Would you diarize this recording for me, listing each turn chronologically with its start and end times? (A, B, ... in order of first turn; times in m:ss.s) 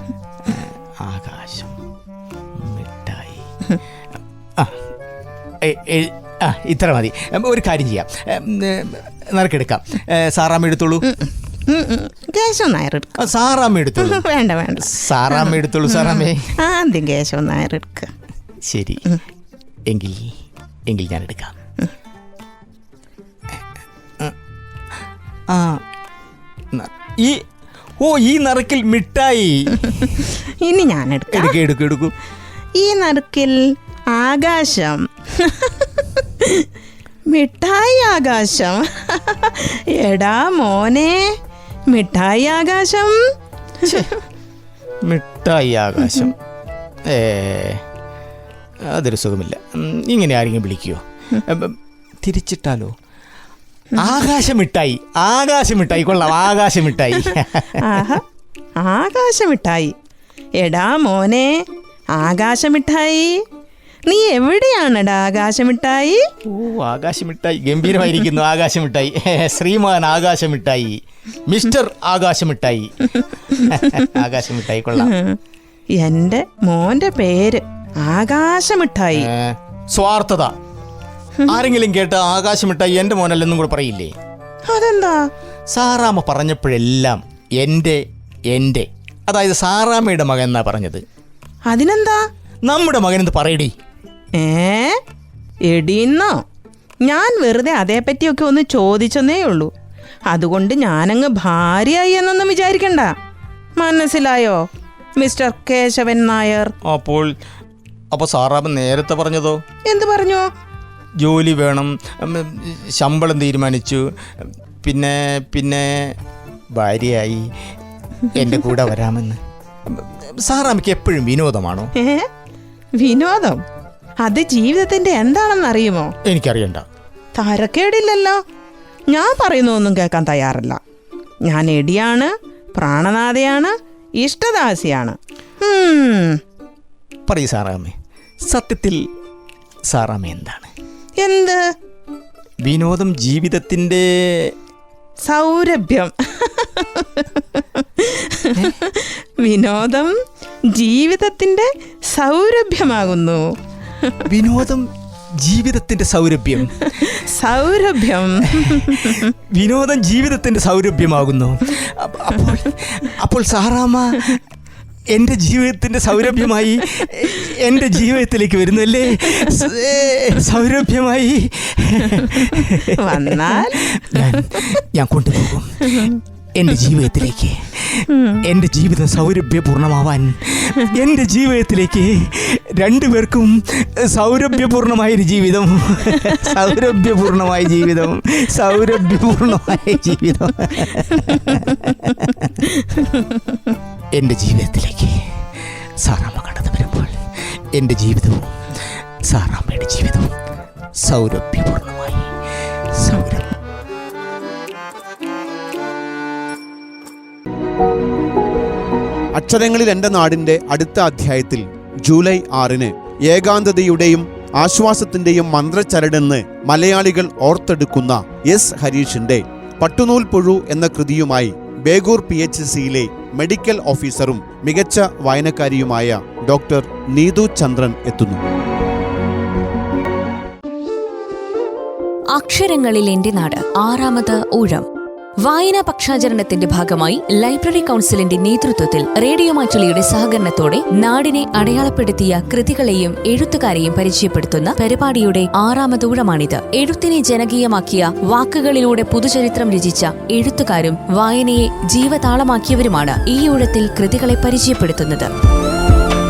0:00.4-0:01.8 A
0:02.6-0:03.5 A
0:05.6-0:11.1 A
0:11.1-0:13.2 B
0:13.2-0:14.2 A
0:14.0-0:18.1 B
0:14.8-0:16.5 A
0:18.6-0:19.1 A
0:19.9-0:20.3 A
0:20.9-0:21.5 A
0:25.5-0:25.8 A
0:26.7-0:27.4 A
0:28.0-0:30.3 A
0:30.4-0:31.6 B
0:31.3-0:32.1 A
0:32.8-0:33.6 B
0:34.1-0:36.7 B
0:37.3-0:41.2 B
0:41.9-0:43.2 B
0:43.8-0:44.1 A
0:45.0-0:46.4 A
0:47.1-0:47.8 A
0:48.9-0:52.9 A
0:54.0-0:58.1 A
0:57.8-0:58.2 B
0:58.8-0:59.9 B
1:00.6-1:01.5 B
1:02.1-1:03.4 B
1:04.1-1:06.2 B
1:06.5-1:15.1 A
1:15.0-1:15.4 B
1:16.0-1:19.3 B
1:19.1-1:20.5 A
1:21.5-1:24.1 A
1:24.7-1:25.2 B
1:25.7-1:31.0 A
1:31.7-1:32.2 B
1:32.6-1:33.7 A
1:34.4-1:35.0 B
1:35.7-1:36.4 B
1:37.0-1:39.7 B
1:40.3-1:43.1 B
1:43.8-1:44.6 B
1:45.2-1:46.7 B
1:46.8-1:47.3 A
1:48.1-1:49.6 A
1:49.8-1:50.4 B
1:51.2-1:56.2 A
1:56.7-1:57.5 A
1:58.3-2:01.9 A
2:02.0-2:02.3 B
2:03.0-2:03.6 B
2:04.2-2:06.1 B
2:06.2-2:06.8 A
2:07.3-2:08.4 B
2:09.1-2:10.8 B
2:11.5-2:16.4 B
2:17.3-2:19.0 A
2:19.9-2:20.7 A
2:21.2-2:21.6 B
2:22.6-2:24.5 A
2:25.2-2:30.2 B
2:30.7-2:33.4 B
2:34.2-2:36.9 A
2:36.8-2:39.3 B
2:38.5-2:44.4 A
2:45.1-3:12.6 A
2:52.8-2:54.3 B
2:55.8-2:56.2 B
2:58.1-2:58.4 B
3:12.9-3:13.2 B
3:14.1-3:18.6 A
3:19.3-3:20.3 A
3:21.0-3:22.3 A
3:23.0-3:23.6 A
3:29.3-3:48.4 C
3:52.3-3:54.8 D
3:55.4-4:15.3 D